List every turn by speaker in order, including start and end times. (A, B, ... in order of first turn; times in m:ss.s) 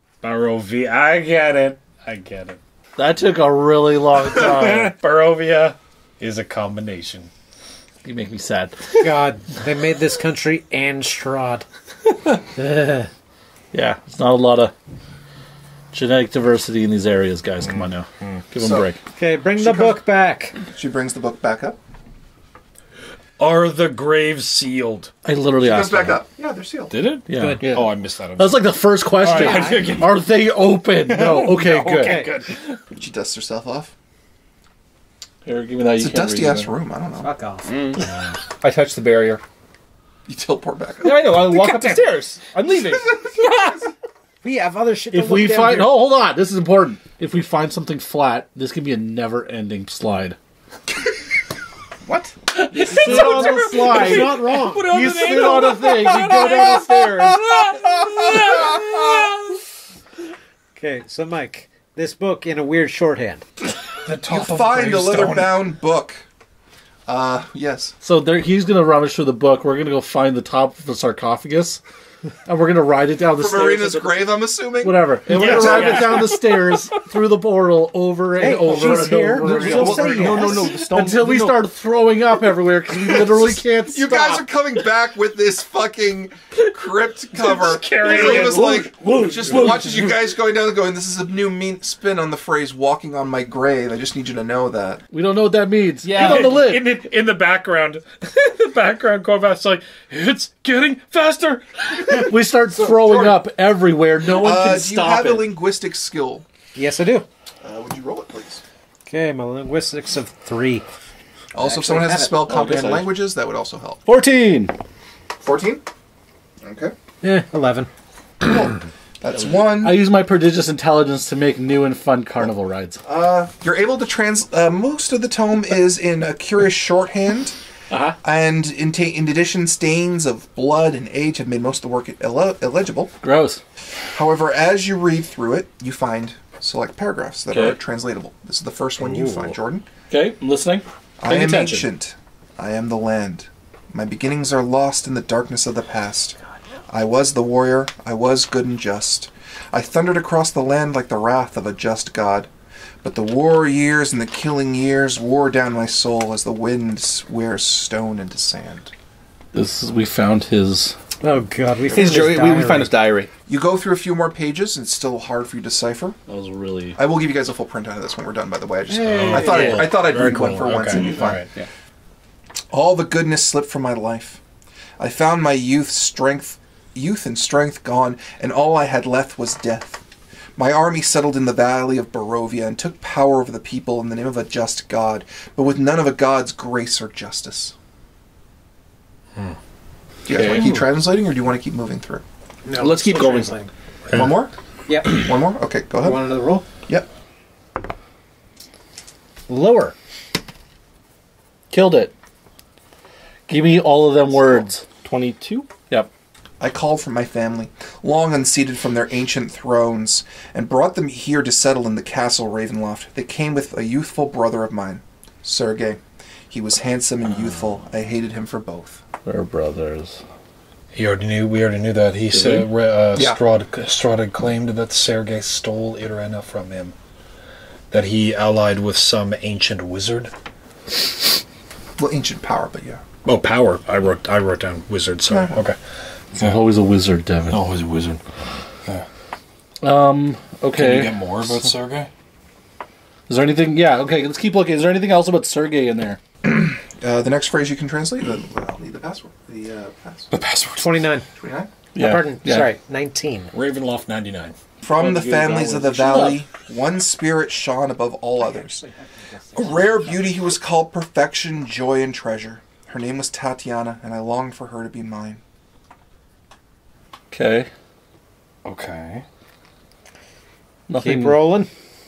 0:00.2-0:02.6 A
0:03.0-0:05.0 B
0:04.3-0:07.3 A
0:08.0-0:09.0 B
0:09.0-0:11.7 C
0:12.6-0:13.1 B
0:13.7-0:14.7 B
0:15.9-0:19.0 B
0:17.8-0:18.4 A
0:18.6-0:18.9 D
0:19.2-0:20.6 C
0:19.6-0:20.0 D
0:20.7-0:21.8 D
0:23.4-0:25.1 A
0:25.2-0:26.2 B
0:25.6-0:27.0 D
0:26.9-0:30.2 A
0:27.3-0:32.2 B
0:27.3-0:27.7 C
0:29.2-0:29.8 C
0:29.3-0:29.6 E
0:31.1-0:32.8 A
0:31.8-0:32.3 C
0:32.9-0:33.9 D
0:35.4-0:36.7 B
0:36.0-0:37.3 D
0:37.2-0:37.7 C
0:37.7-0:38.1 E
0:38.6-0:39.4 E
0:40.3-0:42.0 D
0:41.0-0:43.2 E
0:44.4-0:46.0 C
0:45.1-0:50.4 B
0:52.1-0:53.6 E
0:52.6-0:59.6 A
0:52.7-0:57.4 B
0:52.9-0:55.2 C
0:57.8-0:58.6 D
1:00.8-1:03.5 C
1:04.0-1:05.6 A
1:04.3-1:06.3 D
1:07.1-1:08.0 D
1:08.0-1:11.8 B
1:12.5-1:24.4 B
1:13.3-1:16.3 D
1:15.3-1:17.0 A
1:18.4-1:20.7 C
1:19.4-1:21.7 E
1:19.5-1:20.8 D
1:22.9-1:35.0 D
1:27.3-1:28.8 A
1:28.0-1:30.1 B
1:29.4-1:30.0 A
1:35.1-1:37.0 B
1:36.0-1:36.8 E
1:36.2-1:42.3 A
1:42.2-1:45.5 B
1:42.8-1:43.4 D
1:44.3-1:46.4 D
1:46.8-1:47.3 C
1:47.6-1:48.6 D
1:49.1-1:50.9 C
1:51.5-1:54.1 D
1:51.6-1:52.9 E
1:52.7-1:53.0 B
1:54.1-1:54.7 B
1:55.4-1:55.8 D
1:56.6-1:57.0 D
1:57.2-1:57.9 C
1:58.4-2:00.0 D
1:59.3-2:03.0 B
2:03.0-2:07.6 D
2:07.9-2:08.2 B
2:08.2-2:13.1 D
2:13.2-2:13.6 B
2:14.1-2:19.9 D
2:17.5-2:17.8 B
2:19.3-2:19.5 B
2:20.1-2:21.9 B
2:21.2-2:26.4 D
2:26.9-2:32.5 D
2:33.0-2:38.9 D
2:39.5-2:41.0 B
2:41.2-2:42.9 C
2:41.9-2:42.3 D
2:41.9-2:43.3 E
2:43.5-2:46.2 D
2:46.3-2:47.0 B
2:47.0-2:51.5 D
2:49.0-2:51.5 A
2:49.1-2:49.4 C
2:49.3-2:49.8 B
2:51.0-2:51.7 B
2:52.7-2:54.4 D
2:55.0-3:00.0 D
3:00.6-3:07.8 D
3:10.3-3:12.2 D
3:10.3-3:10.8 B
3:10.5-3:10.8 C
3:12.6-3:13.7 C
3:12.8-3:13.6 E
3:14.1-3:14.4 A
3:14.1-3:14.5 D
3:14.9-3:15.3 C
3:15.0-3:16.4 D
3:16.0-3:16.7 C
3:19.5-3:20.0 C
3:21.7-3:22.1 B
3:23.5-3:24.9 B
3:25.0-3:25.7 E
3:26.6-3:39.0 D
3:39.2-3:40.2 B
3:41.0-3:47.0 A
3:42.3-3:42.7 B
3:47.9-3:50.3 A
3:52.0-3:53.0 D
3:53.2-3:55.8 A
3:55.3-3:55.6 D
3:56.4-3:57.6 B
3:57.5-3:58.2 A
3:59.8-4:01.7 B
4:00.8-4:02.1 A
4:03.3-4:06.2 B
4:06.4-4:10.3 D
4:10.3-4:11.1 A
4:10.8-4:11.3 C
4:11.4-4:11.7 D
4:11.9-4:12.7 B
4:12.0-4:13.5 C
4:13.5-4:14.6 A
4:14.8-4:18.8 D
4:14.9-4:16.5 B
4:18.4-4:20.2 C
4:19.6-4:25.4 D
4:27.3-4:27.7 B
4:28.6-4:29.2 A
4:30.9-4:31.4 B
4:31.0-4:31.7 C